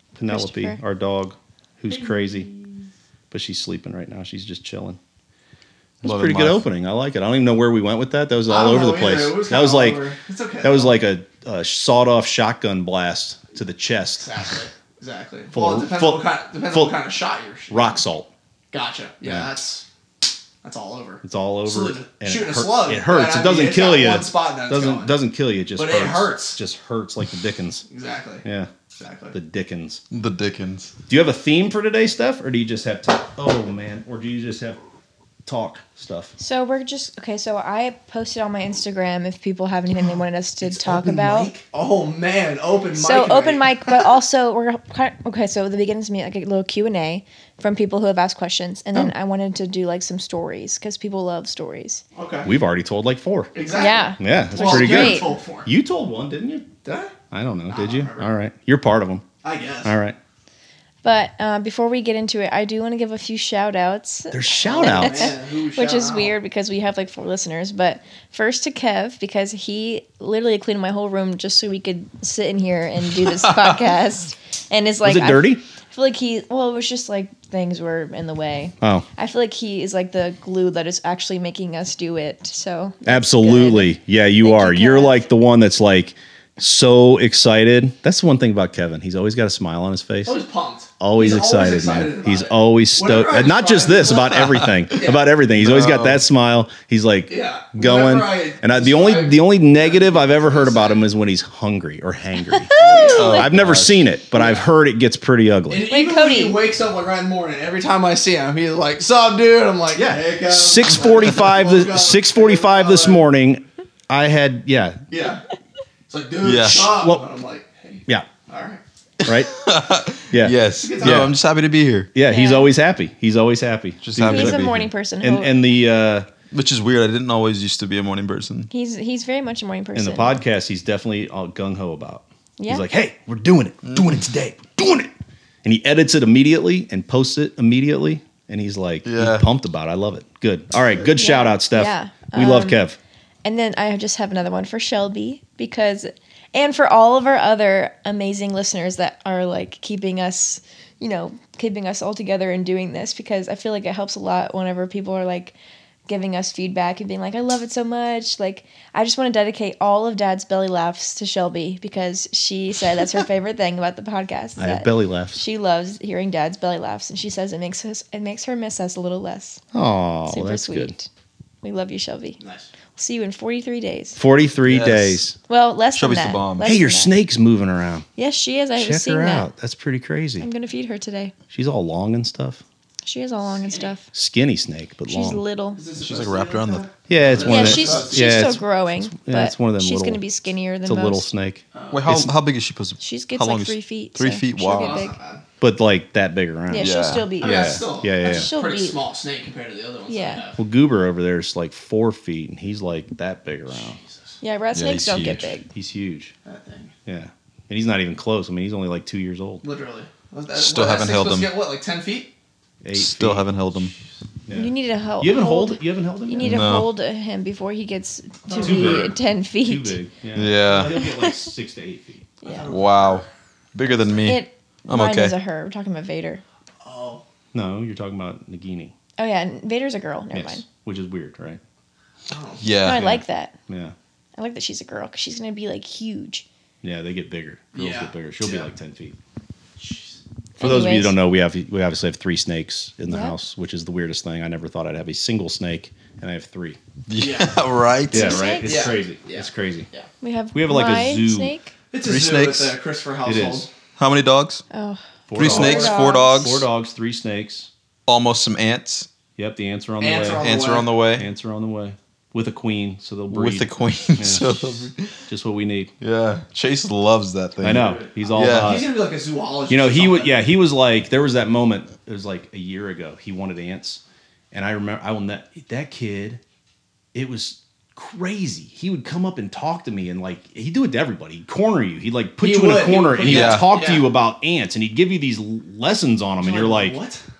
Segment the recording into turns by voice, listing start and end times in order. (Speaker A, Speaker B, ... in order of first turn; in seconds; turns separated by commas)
Speaker A: 0.1-2.5, Speaker B: 0.3-0.8, Speaker C: 1.9-2.5, Speaker A: 3.3-5.0, Speaker A: 6.0-10.1, Speaker D: 6.0-6.7, Speaker C: 8.5-11.0, Speaker A: 10.6-14.3, Speaker C: 14.2-18.0, Speaker A: 15.5-17.0, Speaker A: 17.7-18.3, Speaker C: 18.7-19.8, Speaker A: 19.2-19.5, Speaker C: 20.6-25.1, Speaker A: 21.2-27.9, Speaker C: 25.8-26.6, Speaker C: 27.9-28.4, Speaker A: 28.4-28.7, Speaker C: 29.0-29.4, Speaker A: 29.3-30.0, Speaker D: 30.1-30.9, Speaker A: 31.1-34.8, Speaker A: 35.5-36.3, Speaker B: 36.4-41.5, Speaker A: 40.6-41.6, Speaker C: 41.5-44.0, Speaker B: 42.9-52.0, Speaker C: 52.1-52.5, Speaker A: 52.5-53.5, Speaker C: 53.5-55.7, Speaker B: 53.7-55.3, Speaker A: 54.2-56.7, Speaker C: 56.8-57.1, Speaker A: 57.3-59.2, Speaker C: 57.7-58.3, Speaker C: 59.4-59.9, Speaker A: 59.8-60.2, Speaker B: 61.0-85.3, Speaker A: 64.3-65.3, Speaker C: 64.6-66.3, Speaker A: 75.0-75.6, Speaker A: 78.8-79.1, Speaker A: 83.1-90.4, Speaker C: 90.2-94.4, Speaker A: 91.0-102.7, Speaker C: 95.0-95.3, Speaker D: 95.6-96.2, Speaker C: 97.3-101.1, Speaker B: 102.7-103.5, Speaker C: 102.7-103.5, Speaker D: 103.2-104.0, Speaker A: 103.3-105.8, Speaker C: 104.3-104.7, Speaker C: 105.7-113.2, Speaker B: 105.9-106.6, Speaker A: 110.0-115.0, Speaker C: 115.1-115.4, Speaker C: 116.1-118.8, Speaker D: 116.4-117.0, Speaker A: 116.6-117.2, Speaker D: 119.2-122.1, Speaker A: 119.2-119.5, Speaker A: 120.3-121.3, Speaker C: 120.8-121.3, Speaker A: 122.2-124.7, Speaker B: 122.3-122.7, Speaker D: 124.0-124.9, Speaker B: 124.2-125.5, Speaker A: 125.2-126.3, Speaker D: 126.5-128.7, Speaker B: 128.7-130.4, Speaker A: 129.9-135.1, Speaker B: 132.6-132.9, Speaker A: 135.6-143.0, Speaker D: 139.1-139.5, Speaker B: 141.2-142.8, Speaker B: 143.4-155.6, Speaker B: 156.1-169.6, Speaker A: 164.6-165.4, Speaker A: 169.7-170.9, Speaker B: 170.3-171.1, Speaker B: 171.6-172.4, Speaker C: 172.4-172.7, Speaker B: 173.0-174.2, Speaker A: 174.2-175.4, Speaker D: 174.7-175.2, Speaker B: 175.5-177.1, Speaker D: 175.9-176.8, Speaker A: 176.6-178.1, Speaker B: 178.2-179.5, Speaker A: 178.8-180.5, Speaker B: 180.4-181.3, Speaker A: 181.5-182.6, Speaker B: 183.0-184.1, Speaker C: 183.5-183.9, Speaker A: 184.1-185.4, Speaker B: 185.1-185.8, Speaker C: 185.8-188.6, Speaker D: 186.0-188.0, Speaker A: 187.1-190.2, Speaker B: 187.4-191.3, Speaker A: 190.8-192.3, Speaker C: 191.7-192.1, Speaker D: 191.9-195.0, Speaker B: 193.0-195.2, Speaker C: 194.6-195.4, Speaker A: 195.6-198.5, Speaker B: 196.7-199.0, Speaker D: 196.8-197.3, Speaker C: 197.4-200.6, Speaker B: 200.1-200.4, Speaker A: 200.6-204.0, Speaker C: 203.7-204.4, Speaker B: 204.4-205.7, Speaker D: 204.7-205.5, Speaker A: 205.7-206.3, Speaker C: 206.4-206.9, Speaker A: 207.1-209.6, Speaker C: 209.6-212.3, Speaker D: 210.5-211.5, Speaker A: 212.8-213.5, Speaker D: 212.9-213.9, Speaker A: 214.5-216.7, Speaker B: 214.5-220.0, Speaker D: 216.4-216.9, Speaker C: 218.5-219.1, Speaker A: 218.6-222.3, Speaker D: 220.3-221.1, Speaker B: 222.4-222.8, Speaker C: 222.4-223.2, Speaker D: 222.7-225.4, Speaker B: 224.2-226.4, Speaker C: 226.8-227.2, Speaker A: 227.5-228.9, Speaker B: 229.2-230.7, Speaker A: 230.3-231.6, Speaker C: 232.3-232.6, Speaker D: 232.6-233.1, Speaker B: 232.8-233.6, Speaker A: 232.9-233.9, Speaker B: 234.4-236.4, Speaker A: 236.8-239.2, Speaker C: 237.7-238.7, Speaker C: 239.8-240.2, Speaker B: 240.6-241.2, Speaker A: 240.6-246.8, Speaker B: 243.1-243.3, Speaker D: 247.1-248.4, Speaker C: 247.2-247.6, Speaker A: 248.1-249.9, Speaker B: 248.1-248.9, Speaker C: 248.7-250.1, Speaker B: 250.2-251.7, Speaker A: 250.5-251.5, Speaker C: 251.9-253.7, Speaker D: 252.0-252.8, Speaker A: 253.2-253.7, Speaker D: 254.0-254.6, Speaker B: 254.7-256.6, Speaker A: 255.3-257.7, Speaker D: 255.3-256.7, Speaker D: 258.1-259.1, Speaker A: 259.4-260.5, Speaker C: 260.0-260.9, Speaker D: 260.2-261.3, Speaker A: 261.2-264.7, Speaker D: 263.3-265.1, Speaker A: 265.3-265.9, Speaker D: 266.0-268.8, Speaker A: 267.6-268.9, Speaker C: 267.8-270.4, Speaker A: 269.7-276.4, Speaker A: 277.1-287.0, Speaker C: 282.4-284.1, Speaker D: 283.2-283.7, Speaker C: 286.4-287.2